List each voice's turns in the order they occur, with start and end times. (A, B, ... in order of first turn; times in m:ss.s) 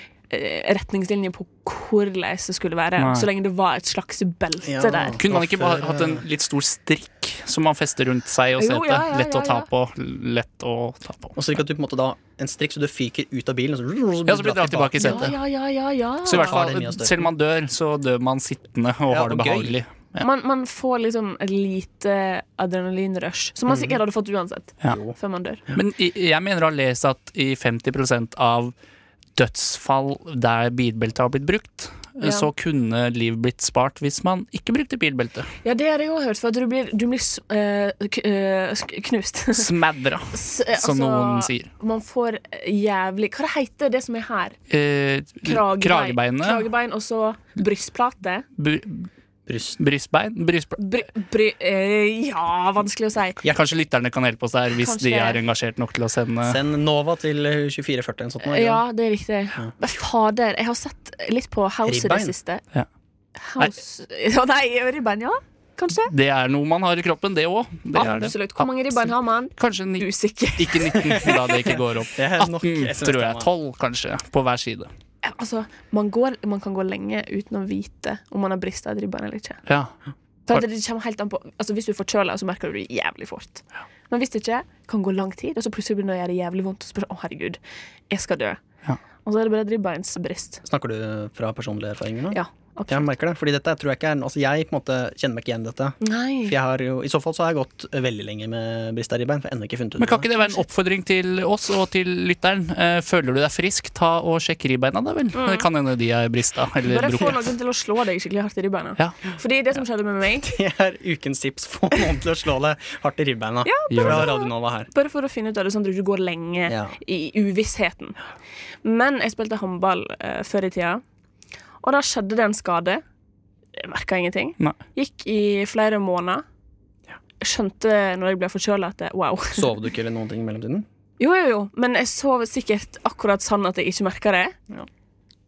0:00.3-0:05.2 A
0:03.0-0:03.3 B
0:04.6-0:06.2 C
0:05.2-0:11.4 B
0:08.6-0:09.7 A
0:11.3-0:15.3 C
0:14.3-0:15.4 B
0:15.0-0:16.6 A
0:16.2-0:20.2 B
0:16.3-0:17.3 C
0:19.1-0:19.7 C
0:20.2-0:25.6 A
0:23.7-0:23.9 C
0:24.9-0:25.1 C
0:25.7-0:28.7 B
0:29.3-0:35.5 B
0:32.2-0:32.5 A
0:35.6-0:39.7 A
0:39.5-0:41.7 B
0:40.3-0:44.6 A
0:44.7-0:46.6 B
0:45.4-0:48.4 A
0:48.6-0:49.1 B
0:49.5-0:49.8 C
0:49.8-0:50.8 B
0:50.8-0:53.4 A
0:53.4-0:56.6 B
0:54.8-0:55.4 A
0:56.4-0:58.8 C
0:58.4-1:02.6 A
1:01.8-1:02.3 C
1:03.4-1:06.1 A
1:06.1-1:14.9 B
1:07.9-1:11.5 A
1:11.7-1:13.5 C
1:15.2-1:19.6 A
1:19.7-1:19.9 B
1:20.5-1:28.6 A
1:29.2-1:30.6 A
1:30.6-1:40.3 C
1:32.3-1:33.1 A
1:36.0-1:36.5 A
1:40.0-1:47.5 B
1:45.3-1:45.7 A
1:46.8-1:50.5 A
1:50.4-1:54.9 C
1:53.6-1:58.2 A
1:53.9-1:54.3 B
1:56.7-1:56.9 C
1:58.8-2:01.0 A
2:01.8-2:03.0 A
2:03.8-2:06.4 A
2:07.4-2:09.7 A
2:09.5-2:10.8 C
2:11.2-2:14.6 A